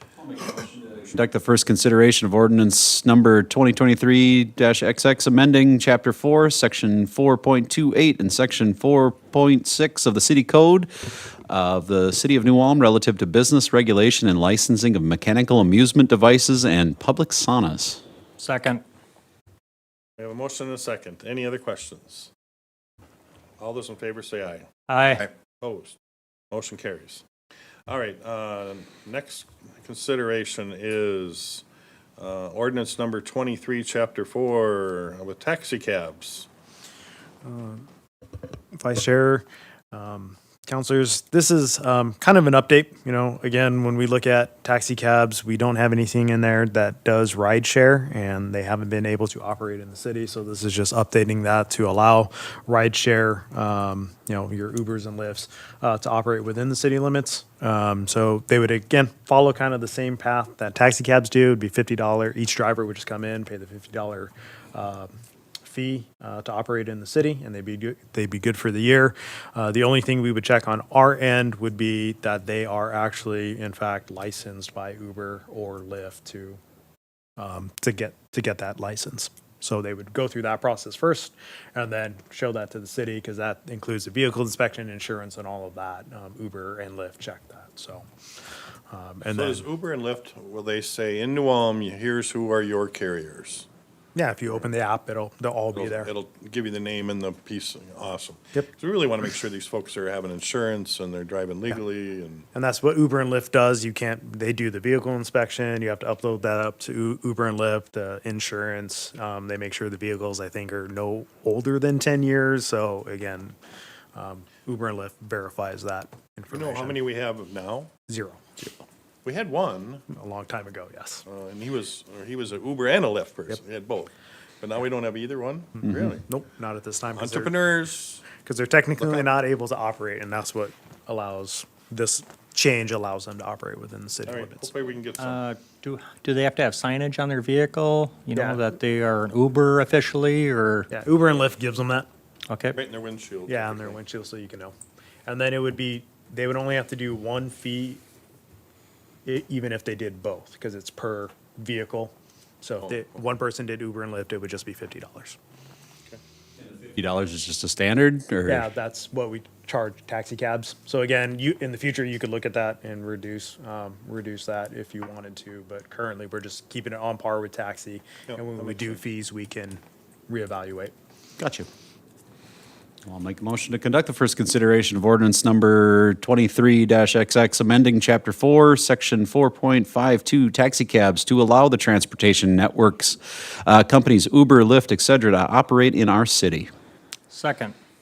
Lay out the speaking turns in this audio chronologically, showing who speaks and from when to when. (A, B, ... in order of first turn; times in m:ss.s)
0:00.3-0:18.0 A
0:18.4-0:18.8 B
0:20.2-0:22.3 C
0:23.6-0:24.7 C
0:24.9-0:25.3 B
0:25.6-0:26.0 C
0:26.5-0:27.2 C
0:27.9-0:31.6 C
0:32.2-0:36.5 C
0:37.4-0:37.9 D
0:38.7-1:05.1 D
1:05.6-1:16.6 D
1:17.4-1:28.1 D
1:28.9-1:29.6 D
1:29.2-1:33.7 C
1:34.2-1:36.1 D
1:35.7-1:42.5 C
1:42.5-1:53.6 D
1:54.2-1:57.0 D
1:56.5-1:57.9 C
1:58.1-1:58.6 D
1:59.2-2:00.0 C
2:00.1-2:01.2 D
2:01.3-2:06.2 C
2:05.8-2:07.6 D
2:07.2-2:08.2 C
2:08.3-2:14.7 D
2:09.0-2:09.3 C
2:14.3-2:15.4 C
2:15.2-2:20.9 B
2:18.3-2:18.6 D
2:20.9-2:22.1 D
2:22.5-2:22.8 B
2:22.7-2:24.0 C
2:23.5-2:24.8 D
2:25.3-2:28.0 D
2:29.2-2:35.4 D
2:36.6-2:38.7 A
2:38.5-2:50.9 D
2:48.3-2:49.0 C
2:51.4-2:51.7 A
2:53.1-3:06.7 A
3:07.3-3:07.8 B